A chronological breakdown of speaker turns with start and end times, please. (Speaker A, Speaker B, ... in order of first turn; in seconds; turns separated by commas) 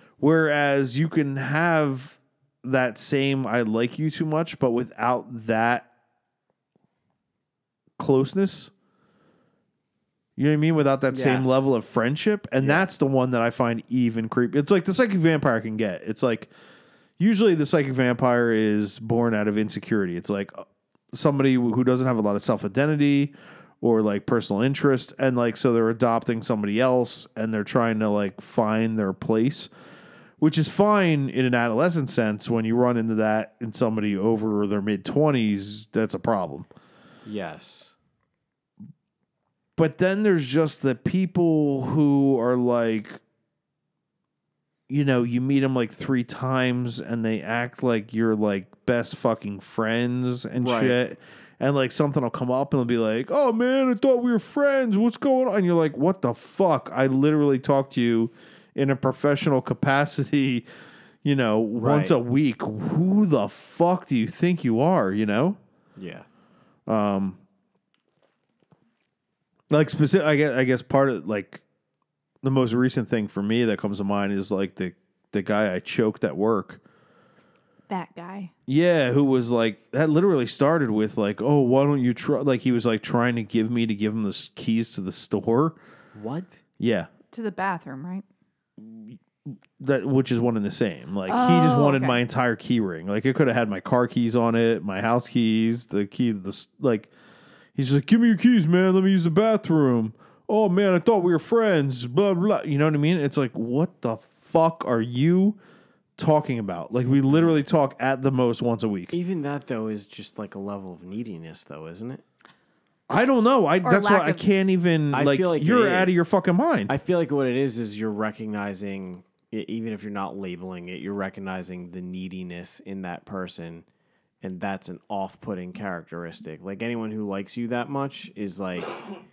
Speaker A: 0.2-5.9, Speaker A: 8.0-8.7, Speaker A: 10.4-16.5, Speaker B: 11.1-11.7, Speaker B: 12.6-12.9, Speaker A: 17.2-29.7, Speaker A: 30.4-36.7, Speaker B: 37.2-37.9, Speaker A: 39.8-43.2, Speaker A: 44.9-60.7, Speaker B: 50.6-51.0, Speaker A: 61.2-65.6, Speaker B: 61.7-62.2, Speaker B: 66.0-66.3, Speaker A: 66.9-67.4, Speaker A: 69.7-71.6, Speaker A: 72.4-76.8, Speaker C: 77.9-78.5, Speaker A: 78.7-85.8, Speaker B: 86.1-86.6, Speaker A: 86.8-87.1, Speaker C: 87.3-88.2, Speaker A: 88.8-89.2, Speaker A: 89.8-97.1, Speaker C: 91.3-92.2, Speaker A: 97.7-105.6, Speaker A: 106.2-109.1, Speaker B: 109.1-112.2, Speaker A: 113.1-116.9, Speaker C: 113.8-114.5, Speaker B: 115.1-116.2, Speaker B: 116.9-123.8, Speaker B: 124.4-129.0